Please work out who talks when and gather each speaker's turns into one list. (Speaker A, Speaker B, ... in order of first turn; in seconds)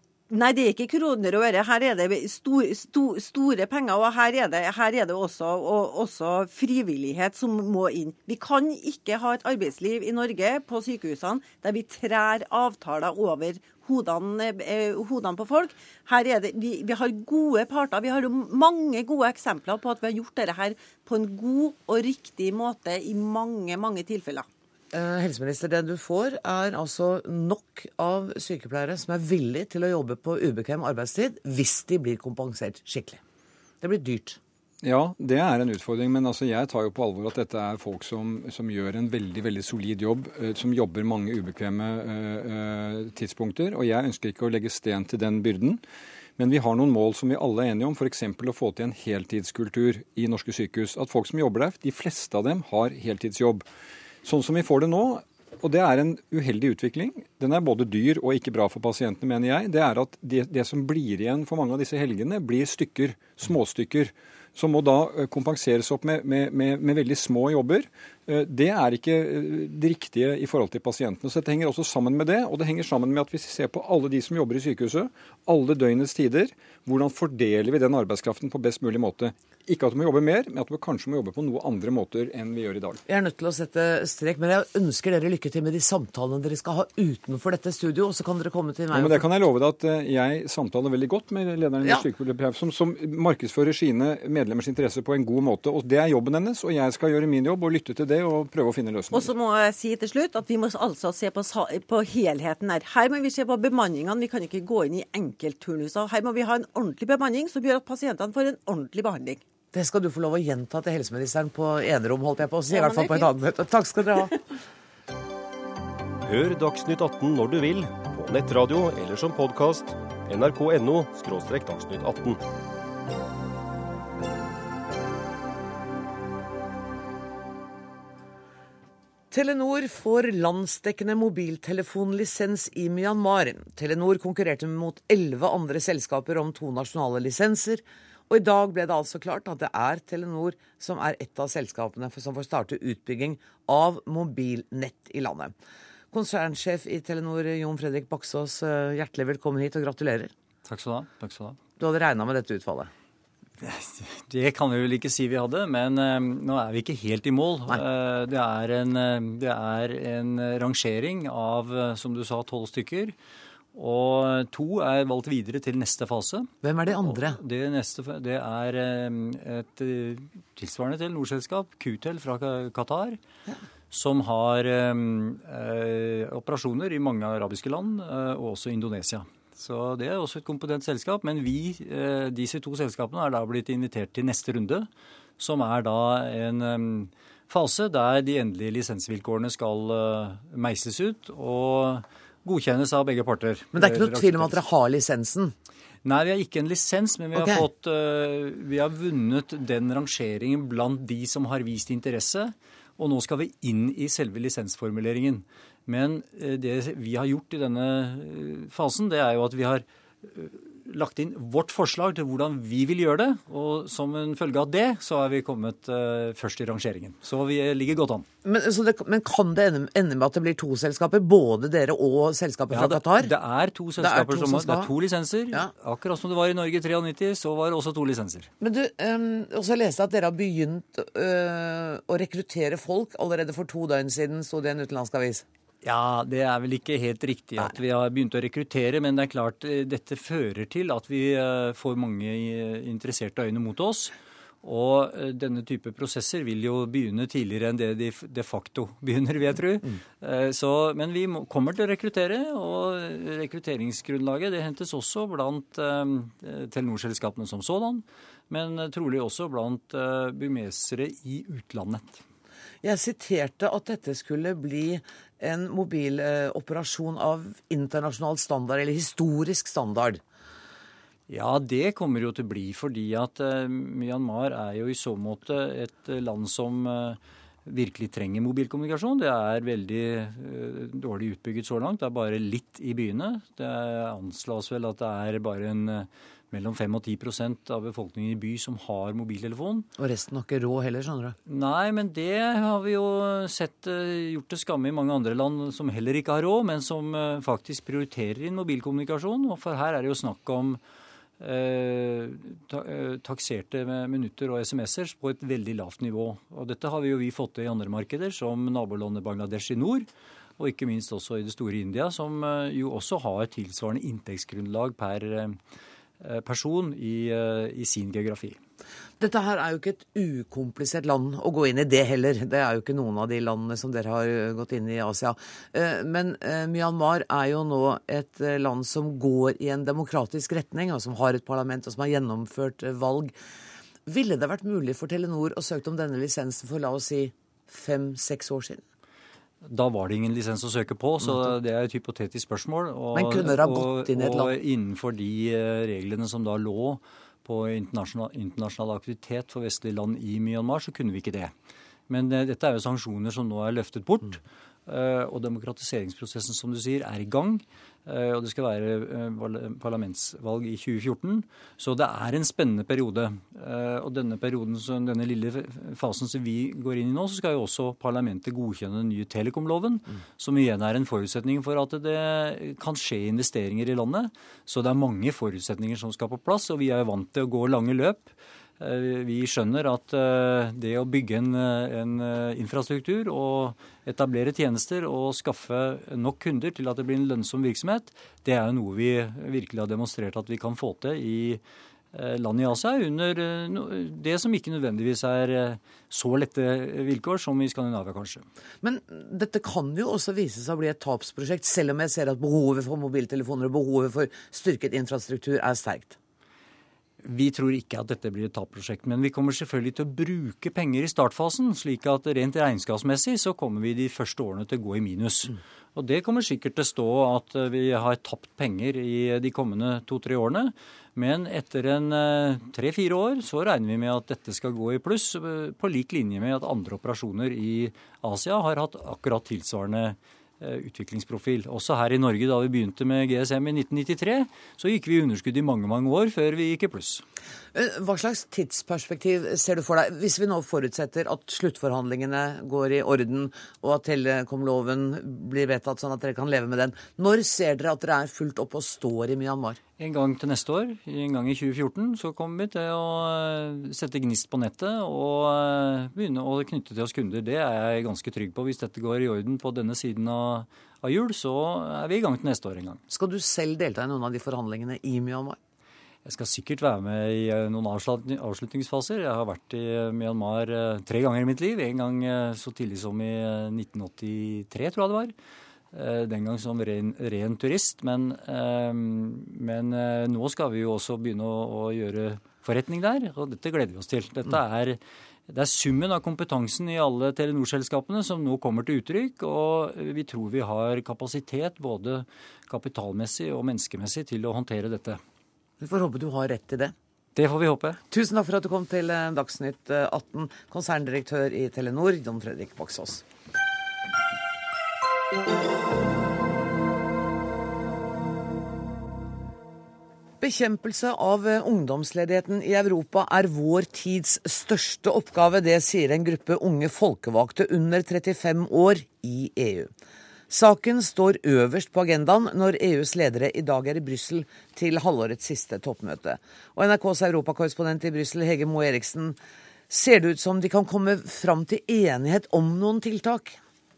Speaker A: 0.3-24.5, 99.1-109.4, 112.7-113.3
Speaker B: 24.9-33.2, 33.8-34.4, 83.1-89.2, 109.7-114.3, 129.3-145.5, 146.1-150.3, 151.8-152.9, 166.6-167.4, 193.7-195.5, 197.4-197.7, 218.4-223.3, 224.0-224.9, 228.6-235.4, 262.8-270.2, 290.0-291.4, 319.2-333.3, 334.1-338.8, 343.1-344.6, 398.8-406.2, 437.7-449.8, 463.1-465.6, 495.8-496.9, 498.1-503.2, 510.4-519.9, 520.5-529.4, 529.9-533.6
Speaker C: 34.8-45.8, 46.4-53.6, 54.2-83.0, 88.9-99.3
Speaker D: 116.2-122.4
Speaker E: 150.7-151.6, 153.6-163.2, 163.7-166.5, 167.0-173.2, 173.9-184.9, 185.4-194.6, 196.1-218.3, 222.7-228.5, 235.8-262.2, 271.3-289.9, 291.5-300.8, 301.4-310.1, 310.6-315.6, 316.2-318.6, 339.6-351.5, 352.1-391.6, 392.1-398.4, 407.2-437.2, 450.0-463.0, 466.2-475.3, 475.9-495.2, 497.4-498.0